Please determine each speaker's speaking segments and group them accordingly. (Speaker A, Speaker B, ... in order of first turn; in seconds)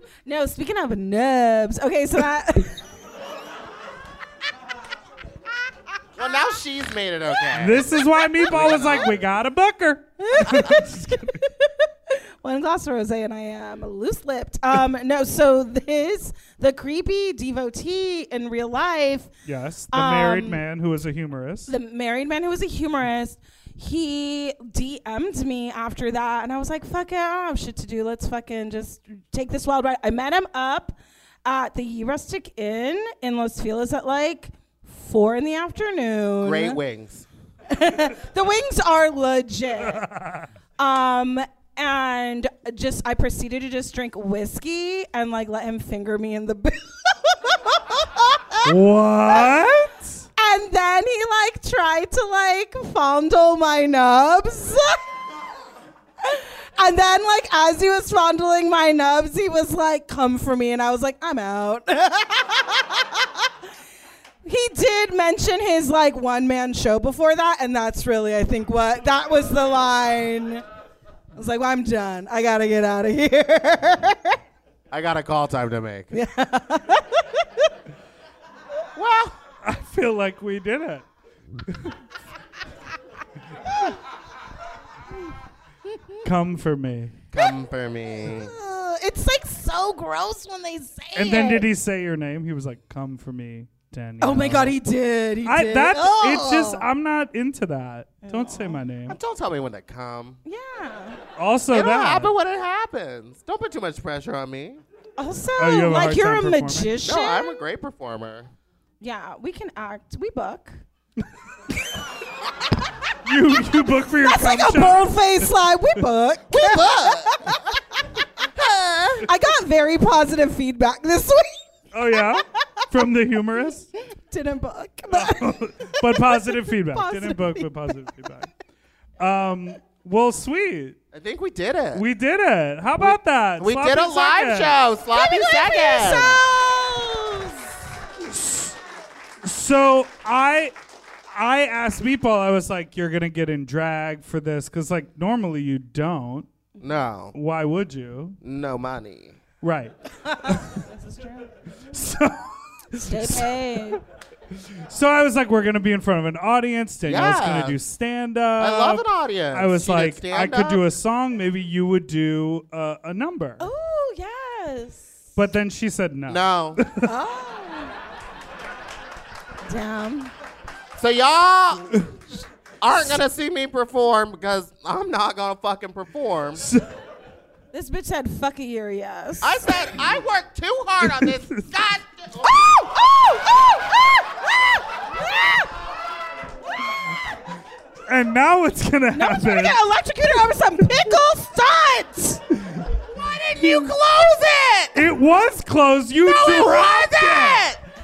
Speaker A: 0.2-2.8, 10.2-19.3, 19.9-20.6, 21.7-36.8, 37.7-40.0, 40.8-48.7, 50.4-55.0, 56.2-63.4, 64.4-70.6, 71.3-74.4, 76.1-77.6, 83.7-83.9, 88.3-91.7, 94.2-96.8, 98.2-98.8, 100.4-101.2, 105.2-107.6, 109.0-110.8, 114.2-117.8, 119.2-121.5, 124.2-128.1, 135.1-137.7, 150.2-151.5, 153.0-154.0, 163.6-165.2, 167.0-167.9, 169.6-170.3, 177.7-179.7, 182.5-185.6, 189.1-192.4
Speaker B: 6.2-9.2, 36.4-37.2, 74.9-76.1, 78.9-79.3, 87.3-88.5, 99.1-100.4, 101.7-104.8, 107.0-108.5, 116.5-117.4, 118.6-119.2, 131.1-132.0, 133.0-136.4, 146.8-147.3, 148.4-149.4, 157.1-157.8, 158.6-160.8, 166.3-166.8, 171.0-172.0, 172.8-176.6, 179.4-182.8, 193.1-195.1, 196.2-197.8
Speaker C: 7.6-11.4, 19.4-21.7, 39.9-40.5, 48.6-50.2, 79.6-81.0, 81.7-81.9, 86.2-87.2, 91.2-94.7, 95.4-99.2, 101.3-102.3, 105.6-106.9, 113.2-115.4, 121.9-123.9, 125.1-128.5, 129.2-131.0, 131.9-134.8, 138.3-138.8, 139.4-140.7, 141.3-146.5, 147.3-148.4, 149.6-150.8, 151.9-153.5, 154.9-163.7, 165.3-167.1, 181.2-181.6, 188.1-189.8, 194.9-197.7